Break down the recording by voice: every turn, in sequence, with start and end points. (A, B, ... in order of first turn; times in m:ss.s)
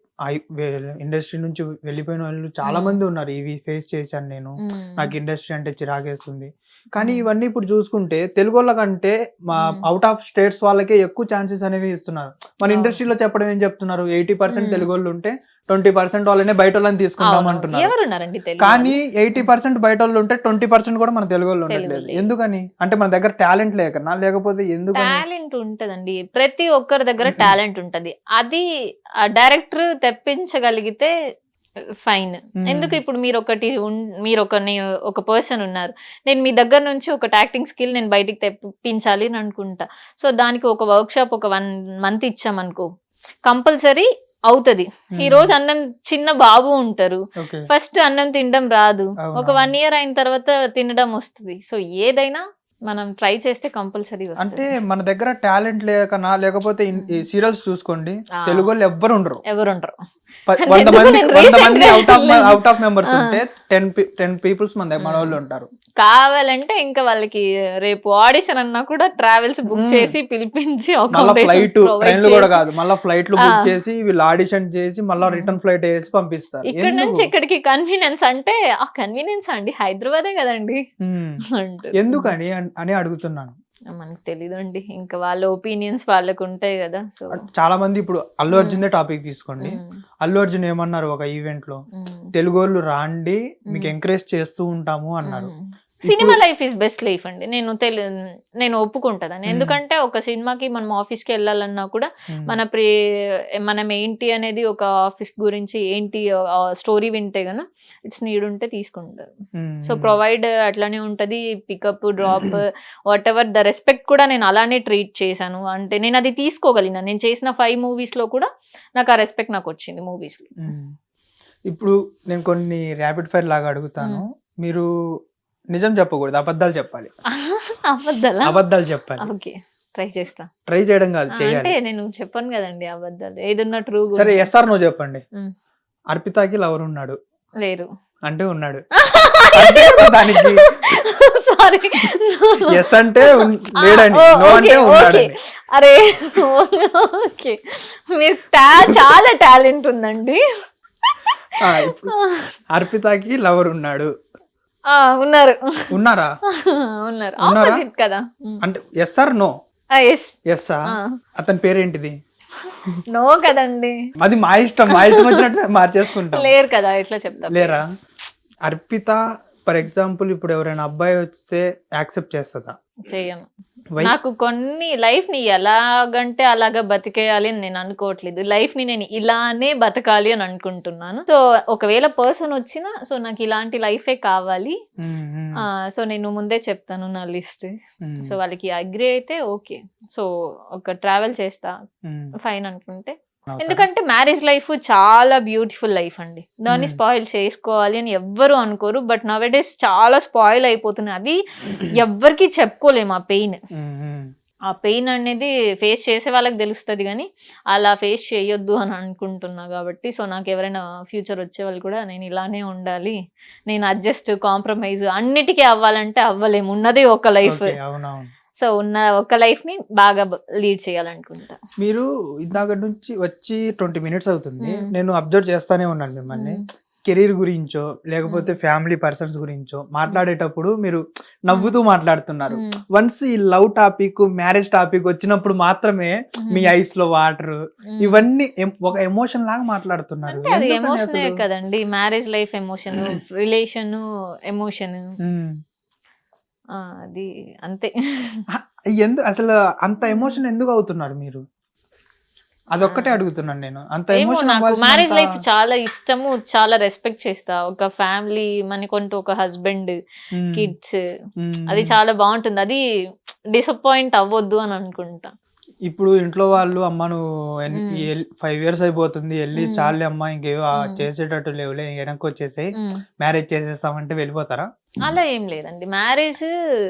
0:00.3-0:17.9 A
0:02.6-0:03.0 B
0:04.7-0:05.1 B
0:07.0-0:07.2 B
0:12.6-0:13.0 B
0:14.5-0:14.8 B
0:17.2-0:19.5 B
0:18.6-0:25.2 A
0:21.7-0:22.2 B
0:24.9-0:28.6 B
0:29.3-0:31.1 B
0:32.0-0:42.8 B
0:32.6-0:33.0 A
0:43.4-0:54.6 B
0:45.2-0:45.5 A
0:47.4-0:47.6 A
0:49.2-0:49.7 A
0:54.4-0:59.4 A
0:57.0-0:57.2 B
0:58.4-0:58.7 B
0:59.5-0:59.9 B
1:00.5-1:05.7 A
1:00.6-1:02.6 B
1:05.0-1:05.4 B
1:06.0-1:12.6 B
1:09.8-1:10.1 A
1:11.1-1:17.3 A
1:15.2-1:15.5 B
1:16.7-1:20.8 B
1:21.0-1:21.4 A
1:21.6-1:22.3 B
1:22.0-1:23.5 A
1:23.9-1:27.4 B
1:27.4-1:31.8 A
1:28.5-1:28.8 B
1:29.6-1:29.9 B
1:32.0-1:32.2 B
1:32.3-1:35.5 A
1:35.3-1:38.0 B
1:36.1-1:36.4 A
1:38.6-1:42.9 B
1:39.5-1:39.8 A
1:43.6-1:49.3 B
1:49.6-1:50.1 A
1:49.8-2:00.5 B
2:00.6-2:00.9 A
2:01.7-2:04.8 A
2:05.7-2:07.1 A
2:07.3-2:08.6 B
2:08.5-2:09.3 A
2:09.2-2:10.5 B
2:10.7-2:11.7 A
2:11.3-2:14.5 B
2:14.2-2:15.2 A
2:16.1-2:17.2 A
2:18.2-2:18.8 A
2:19.0-2:22.6 B
2:19.5-2:20.6 A
2:22.7-2:25.3 A
2:23.3-2:27.6 B
2:28.1-2:30.4 B
2:31.6-2:32.1 A
2:32.0-2:32.4 B
2:32.7-2:34.1 A
2:34.9-2:35.7 B
2:35.9-2:36.3 A
2:36.6-2:38.6 B
2:37.4-2:37.8 A
2:38.6-2:39.5 A
2:39.9-2:40.3 B
2:40.5-2:40.8 A
2:41.4-2:42.1 A
2:43.1-2:44.0 B
2:44.2-2:46.5 A
2:44.9-2:45.4 B
2:46.3-2:47.8 B
2:47.5-2:47.8 A
2:48.6-2:52.7 A
2:53.1-2:53.4 B
2:54.0-3:04.7 B
3:05.0-3:05.6 A
3:05.9-3:07.7 B
3:08.0-3:08.3 A
3:08.2-3:11.7 B
3:12.0-3:12.3 A
3:12.4-3:23.6 B
3:13.5-3:13.8 A
3:16.7-3:17.0 A
3:23.7-3:24.3 A
3:24.7-3:33.2 B
3:33.7-3:37.7 B
3:37.5-3:38.3 A
3:38.6-3:41.6 B
3:41.8-4:01.4 A
3:46.3-3:46.6 B
3:56.4-3:56.7 B
3:57.9-3:58.2 B
4:00.3-4:05.0 B
4:05.2-4:05.6 A
4:06.8-4:08.4 B
4:08.6-4:11.4 A
4:10.1-4:10.4 B
4:12.7-4:15.2 A
4:12.8-4:13.2 B
4:14.2-4:19.9 B
4:20.4-4:20.7 A
4:20.5-4:21.0 B
4:21.4-4:21.9 A
4:21.7-4:22.8 B
4:23.5-4:25.3 B
4:25.9-4:34.7 A
4:27.8-4:28.0 B
4:29.6-4:29.9 B
4:35.0-4:36.5 B